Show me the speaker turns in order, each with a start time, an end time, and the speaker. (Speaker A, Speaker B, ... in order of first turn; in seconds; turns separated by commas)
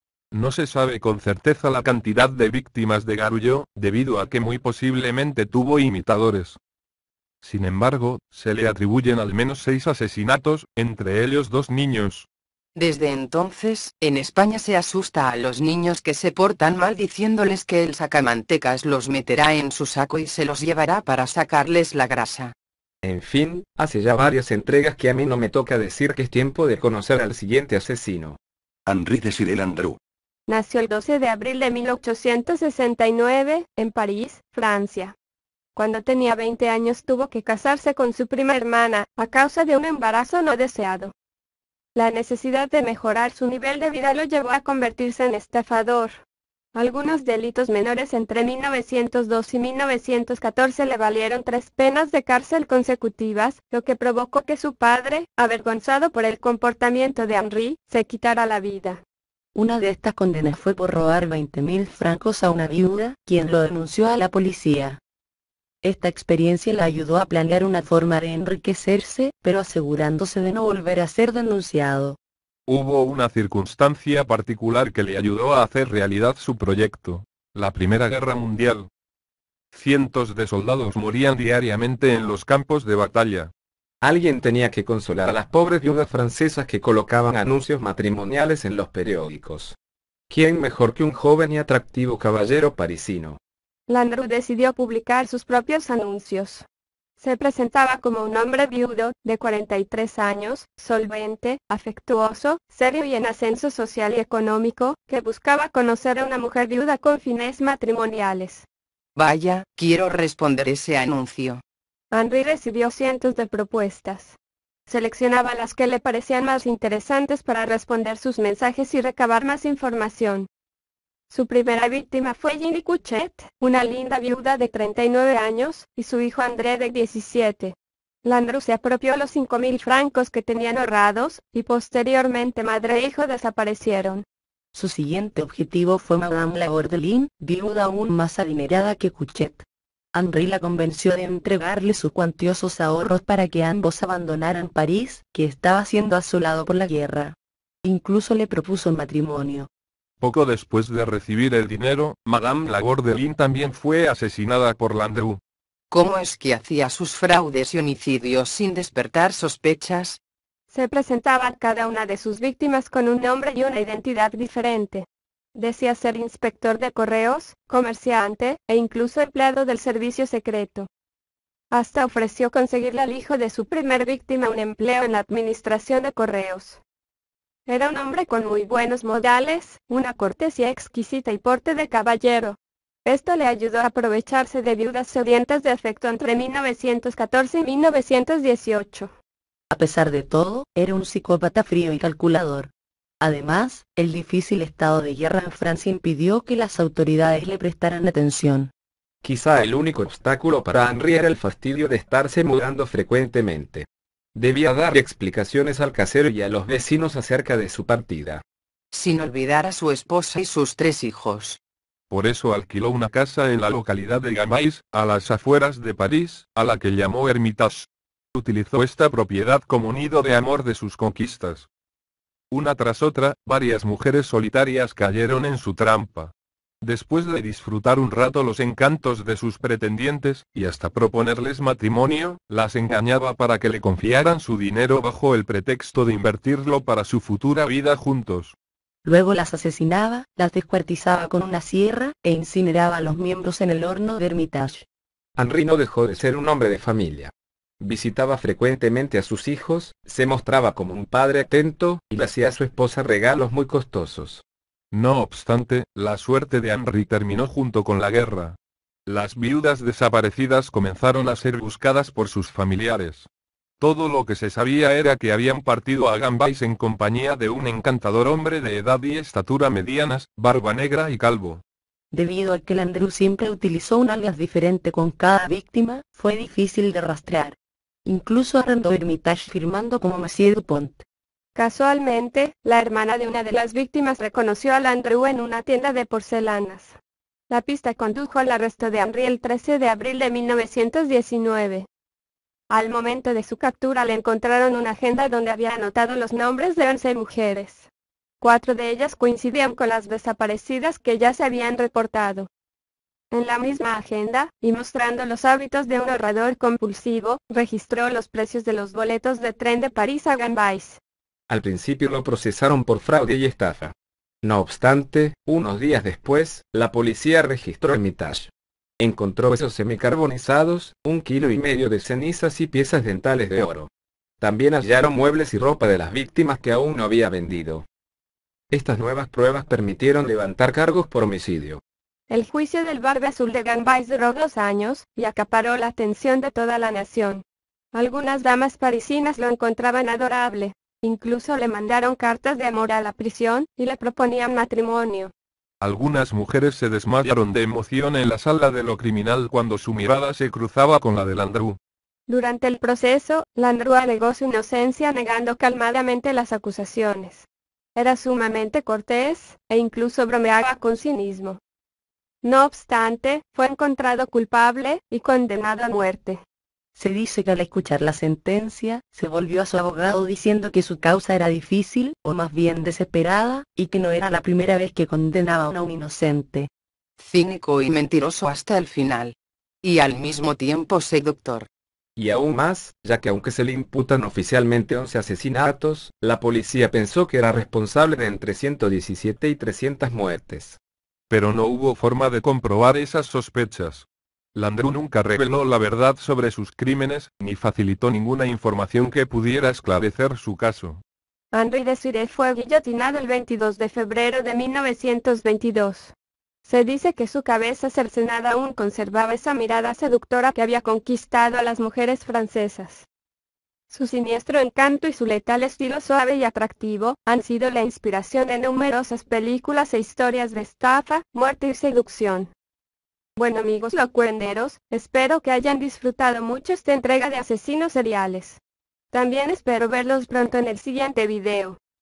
Speaker A: 0.3-6.6, Speaker A: 7.4-12.2, Speaker B: 12.8-22.6, Speaker C: 23.0-28.4, Speaker D: 28.9-30.0, Speaker E: 30.5-35.1, Speaker E: 35.8-41.1, Speaker E: 41.9-46.2, Speaker E: 46.7-59.0, Speaker F: 59.6-65.0, Speaker D: 64.5-64.9, Speaker D: 65.9-66.2, Speaker F: 65.9-72.2, Speaker D: 67.1-68.0, Speaker A: 72.7-78.9, Speaker A: 79.7-83.5, Speaker C: 84.0-89.8, Speaker C: 90.3-93.4, Speaker E: 93.9-96.6, Speaker E: 97.2-108.7, Speaker B: 109.2-111.6, Speaker E: 112.1-114.4, Speaker E: 114.9-120.5, Speaker E: 121.3-134.2, Speaker F: 134.8-139.6, Speaker D: 135.9-136.2, Speaker D: 138.6-139.2, Speaker D: 140.2-140.6, Speaker F: 140.2-147.3, Speaker D: 144.3-144.7, Speaker D: 146.7-146.9, Speaker F: 147.9-149.7, Speaker A: 150.2-155.4, Speaker B: 155.9-160.2, Speaker E: 160.7-170.9, Speaker E: 171.7-176.8, Speaker E: 177.7-189.1, Speaker F: 189.7-192.7, Speaker F: 193.2-198.7, Speaker C: 199.2-208.4, Speaker B: 208.9-211.6, Speaker A: 212.1-221.7, Speaker A: 222.5-238.6, Speaker F: 239.1-244.7, Speaker D: 243.0-243.5, Speaker D: 244.1-244.8, Speaker C: 245.3-254.4, Speaker A: 254.9-263.3, Speaker A: 263.8-271.6, Speaker F: 272.1-277.5, Speaker D: 272.2-277.4, Speaker D: 278.1-280.8, Speaker F: 278.2-280.9, Speaker E: 281.6-287.0, Speaker E: 287.5-291.9, Speaker E: 292.7-297.9, Speaker E: 298.4-302.5, Speaker E: 303.3-311.0, Speaker C: 311.5-323.9, Speaker C: 324.4-327.8, Speaker C: 328.7-331.8, Speaker E: 332.3-345.3, Speaker A: 345.8-351.8, Speaker E: 352.3-361.6, Speaker E: 362.4-366.4, Speaker F: 367.0-376.7, Speaker D: 369.1-373.2, Speaker B: 377.2-381.7, Speaker C: 382.2-390.8, Speaker A: 391.3-401.0, Speaker E: 401.5-406.1, Speaker E: 406.6-413.1, Speaker E: 413.9-422.5, Speaker E: 423.4-428.6, Speaker E: 429.1-431.8